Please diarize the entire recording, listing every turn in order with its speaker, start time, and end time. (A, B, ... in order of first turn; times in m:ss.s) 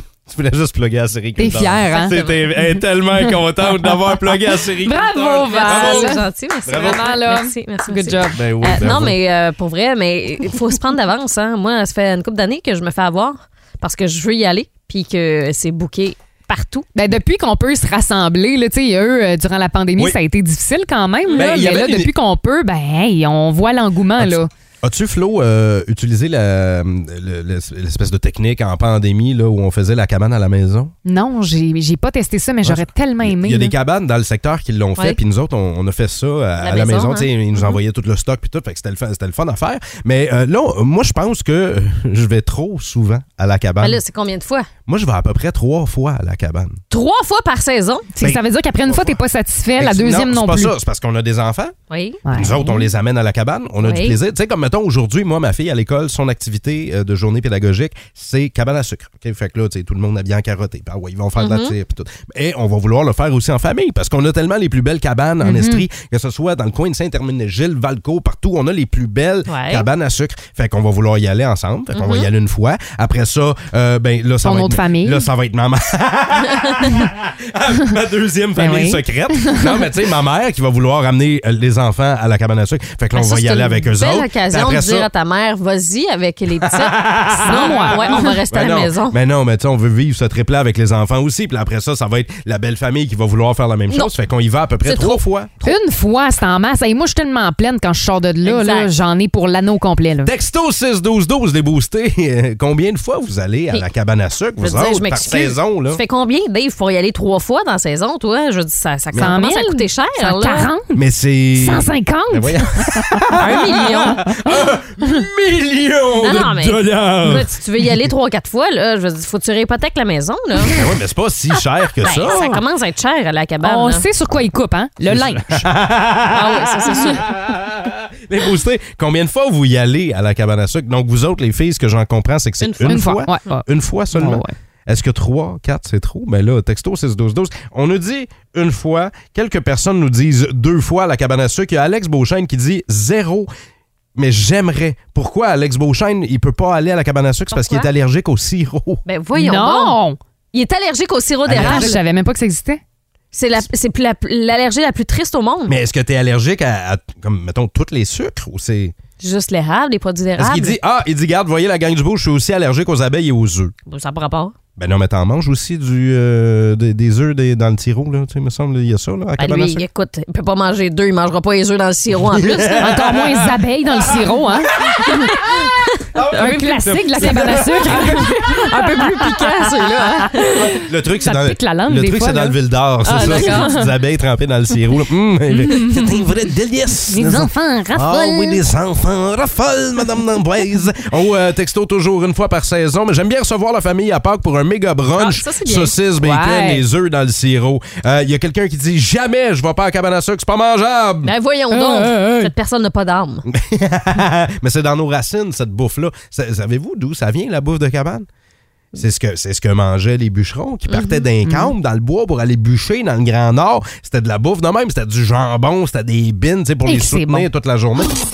0:00.3-0:07.1 A
0:01.4-0:02.2 B
0:01.9-0:02.4 C
0:04.8-0:08.4 B
0:05.5-0:16.9 C
0:08.3-0:09.2 A
0:16.9-0:24.5 B
0:21.3-0:22.1 A
0:24.2-0:30.9 A
0:31.0-0:33.7 B
0:32.6-0:44.0 A
0:36.6-0:37.7 C
0:43.8-0:44.7 C
0:44.9-0:46.8 A
0:46.9-0:48.1 C
0:48.1-0:50.7 B
0:48.2-0:49.2 A
0:49.8-0:51.7 A
0:51.9-0:52.9 C
0:52.2-0:52.6 B
0:52.3-1:25.1 A
0:53.8-0:54.2 C
1:01.4-1:01.7 C
1:05.4-1:05.8 B
1:09.5-1:09.8 C
1:11.9-1:12.3 C
1:14.4-1:15.2 B
1:16.5-1:16.8 C
1:18.6-1:19.8 B
1:23.1-1:29.2 C
1:26.6-1:35.8 A
1:27.3-1:28.3 B
1:34.8-1:35.2 C
1:35.6-1:40.3 B
1:38.4-1:38.9 C
1:40.2-1:46.0 A
1:44.6-1:50.7 C
1:49.2-1:51.0 B
1:50.9-1:57.5 A
1:51.6-1:54.5 B
1:53.4-1:54.4 C
1:56.2-2:00.7 C
2:00.7-2:02.6 A
2:02.0-2:02.4 B
2:02.0-2:04.0 C
2:03.6-2:05.6 B
2:05.0-2:23.5 A
2:06.3-2:07.3 C
2:12.6-2:13.1 C
2:12.9-2:14.5 B
2:24.1-2:29.0 A
2:27.5-2:27.9 C
2:29.0-2:30.0 C
2:29.4-2:30.2 B
2:30.5-2:32.0 C
2:31.4-2:32.0 A
2:31.6-2:32.8 B
2:33.3-2:35.7 C
2:35.7-2:38.9 A
2:39.2-2:40.8 C
2:40.4-2:43.7 A
2:43.9-2:44.6 C
2:44.8-2:49.8 A
2:49.4-2:53.0 C
2:52.2-2:54.2 A
2:52.8-2:55.3 B
2:55.1-3:00.7 C
2:56.1-2:58.3 A
2:56.4-2:58.9 B
3:00.8-3:22.5 A
3:01.2-3:02.6 B
3:03.0-3:03.8 C
3:03.2-3:03.8 B
3:05.5-3:06.1 B
3:07.1-3:08.6 B
3:15.1-3:15.9 C
3:16.2-3:16.8 B
3:21.2-3:23.4 C
3:23.5-3:28.3 A
3:29.0-3:38.1 A
3:31.0-3:31.7 B
3:36.8-3:37.5 B